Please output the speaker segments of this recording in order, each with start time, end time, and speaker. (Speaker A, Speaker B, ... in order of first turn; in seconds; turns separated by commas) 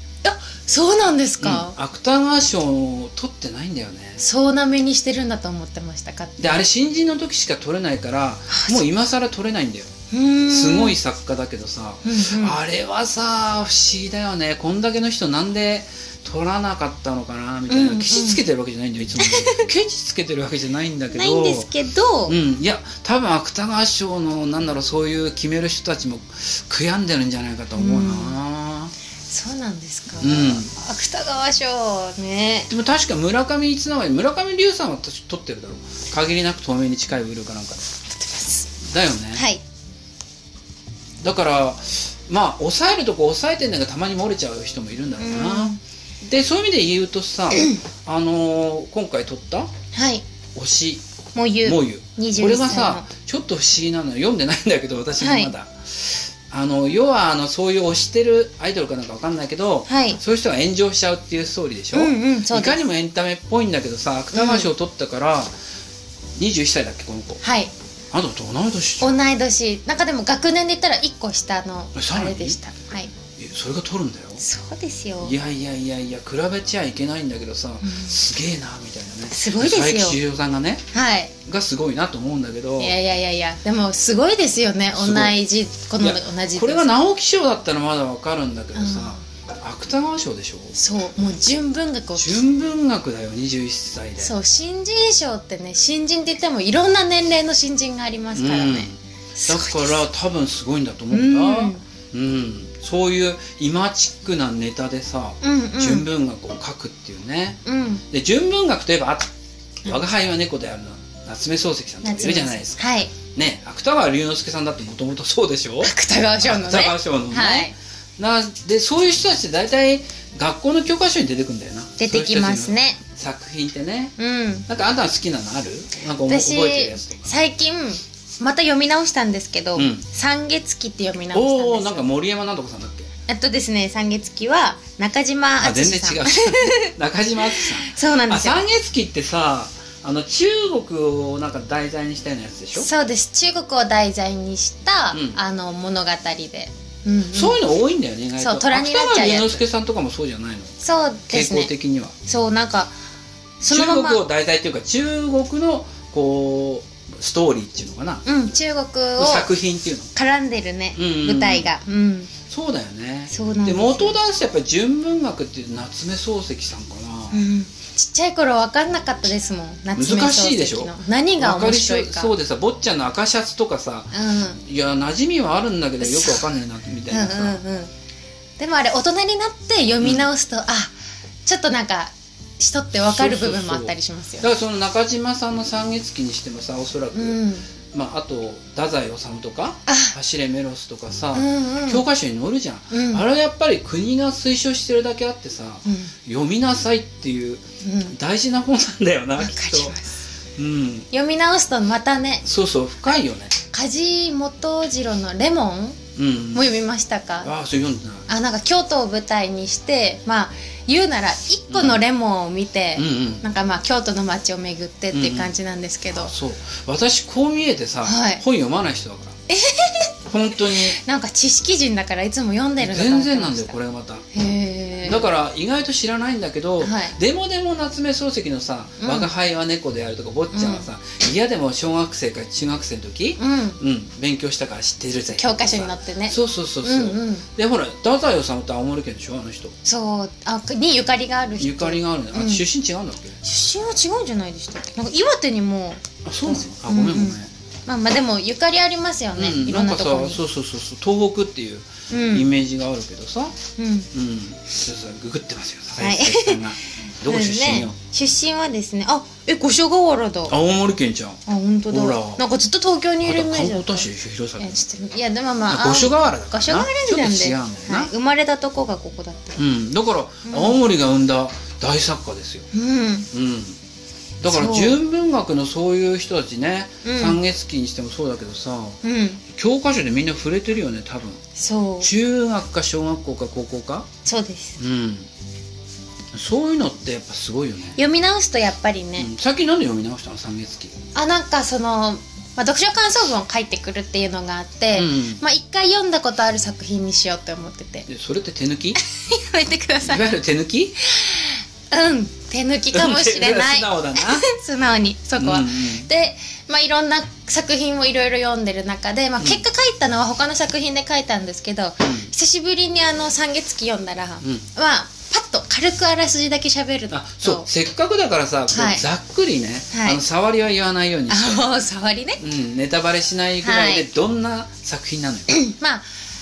Speaker A: 0.2-1.8, Speaker B: 1.4-4.2, Speaker A: 4.2-6.7, Speaker B: 6.4-9.9, Speaker A: 8.5-8.8, Speaker A: 10.1-11.0, Speaker B: 10.5-21.7, Speaker A: 12.1-12.6, Speaker A: 17.7-18.4, Speaker A: 19.2-19.7, Speaker A: 21.1-22.4, Speaker B: 22.3-28.9, Speaker A: 27.8-28.4, Speaker A: 29.3-32.7, Speaker B: 30.2-30.7, Speaker B: 32.7-37.9, Speaker A: 38.1-38.7, Speaker B: 38.9-39.4, Speaker A: 39.3-39.6, Speaker B: 41.2-49.7, Speaker A: 45.2-45.8, Speaker A: 47.5-47.8, Speaker A: 49.9-50.2, Speaker B: 50.5-51.0, Speaker A: 51.4-53.1, Speaker B: 51.6-65.5, Speaker A: 55.2-55.5, Speaker A: 59.9-60.2, Speaker A: 61.9-62.8, Speaker A: 64.3-64.7, Speaker B: 66.4-67.4, Speaker A: 67.4-67.7, Speaker B: 68.1-69.2, Speaker A: 69.0-73.1, Speaker B: 72.0-72.6, Speaker B: 73.4-74.4, Speaker A: 74.4-75.3, Speaker B: 75.2-80.8, Speaker A: 77.8-78.1, Speaker A: 79.3-80.2, Speaker A: 80.9-81.3, Speaker B: 81.5-83.0, Speaker A: 82.8-86.9, Speaker B: 84.9-85.4, Speaker B: 86.0-90.8, Speaker A: 88.8-89.2, Speaker A: 90.8-92.4, Speaker B: 92.2-94.3, Speaker A: 94.2-100.0, Speaker B: 98.3-109.3, Speaker A: 101.1-101.8, Speaker A: 105.4-106.1, Speaker A: 107.7-108.0, Speaker B: 109.8-124.1, Speaker A: 112.0-113.1, Speaker A: 115.8-117.7, Speaker A: 122.0-123.0, Speaker A: 124.2-124.7, Speaker B: 124.7-127.3, Speaker A: 126.3-132.1, Speaker B: 129.8-130.0, Speaker B: 131.3-133.1, Speaker A: 133.3-138.6, Speaker B: 135.6-142.9, Speaker A: 142.8-147.6, Speaker B: 145.1-145.4, Speaker B: 147.3-150.8, Speaker A: 148.4-149.6, Speaker A: 150.8-151.7, Speaker B: 151.3-152.2, Speaker A: 152.2-152.9, Speaker A: 153.6-154.2, Speaker B: 153.7-158.2, Speaker A: 158.2-159.5, Speaker B: 159.2-160.1, Speaker A: 160.2-162.3, Speaker B: 161.0-161.7, Speaker B: 162.5-167.4, Speaker A: 163.3-164.2, Speaker A: 167.3-172.3, Speaker B: 169.9-177.6, Speaker A: 174.1-174.6, Speaker A: 176.0-176.4, Speaker A: 177.1-177.9, Speaker A: 178.6-180.9, Speaker A: 181.5-184.5, Speaker B: 183.0-200.0, Speaker A: 187.1-187.7, Speaker A: 189.9-190.2, Speaker A: 191.3-192.1, Speaker A: 192.9-193.2, Speaker A: 195.8-196.1, Speaker A: 197.8-198.2, Speaker A: 199.4-200.2, Speaker B: 200.6-201.1, Speaker A: 201.1-202.5, Speaker B: 202.4-203.6, Speaker A: 203.7-206.0, Speaker B: 206.2-206.7, Speaker A: 206.5-207.5, Speaker B: 207.4-208.3, Speaker A: 208.3-216.3, Speaker B: 211.7-212.0, Speaker B: 213.0-213.4, Speaker B: 215.1-215.5, Speaker B: 216.1-219.4, Speaker A: 218.0-218.4, Speaker A: 219.5-223.8, Speaker B: 220.3-221.0, Speaker B: 222.8-224.2, Speaker A: 224.3-225.3, Speaker B: 225.0-239.8, Speaker A: 226.8-227.2, Speaker A: 229.0-229.3, Speaker A: 230.5-230.9, Speaker A: 233.4-233.8, Speaker A: 235.4-237.5, Speaker A: 239.8-242.6, Speaker B: 241.6-243.4, Speaker A: 243.4-250.4, Speaker B: 246.2-247.5, Speaker B: 249.4-253.6, Speaker A: 252.1-252.5, Speaker A: 253.8-254.1, Speaker B: 254.1-258.0, Speaker A: 256.0-260.6, Speaker B: 260.5-262.4, Speaker A: 261.5-264.1, Speaker B: 263.2-264.8, Speaker A: 264.6-269.6, Speaker B: 265.7-268.1, Speaker B: 269.6-272.7, Speaker A: 270.4-270.8, Speaker A: 272.7-273.3, Speaker B: 273.3-273.8, Speaker B: 274.4-281.4, Speaker A: 274.5-275.0, Speaker A: 277.0-277.4, Speaker A: 279.0-279.4, Speaker A: 281.6-282.1, Speaker B: 282.0-284.1, Speaker A: 284.2-284.8, Speaker B: 284.8-285.3, Speaker B: 286.3-288.0, Speaker A: 288.0-289.3, Speaker B: 289.2-290.9, Speaker A: 291.1-298.1, Speaker B: 294.9-295.4, Speaker B: 298.1-299.0, Speaker A: 299.0-300.2, Speaker B: 300.0-301.0, Speaker A: 301.1-317.7, Speaker B: 302.9-304.5, Speaker B: 305.4-306.1, Speaker B: 312.0-312.3, Speaker B: 317.1-321.7, Speaker A: 318.7-319.0, Speaker A: 319.9-320.2, Speaker A: 321.3-322.4, Speaker B: 322.4-325.6, Speaker A: 323.6-324.1, Speaker A: 325.5-326.1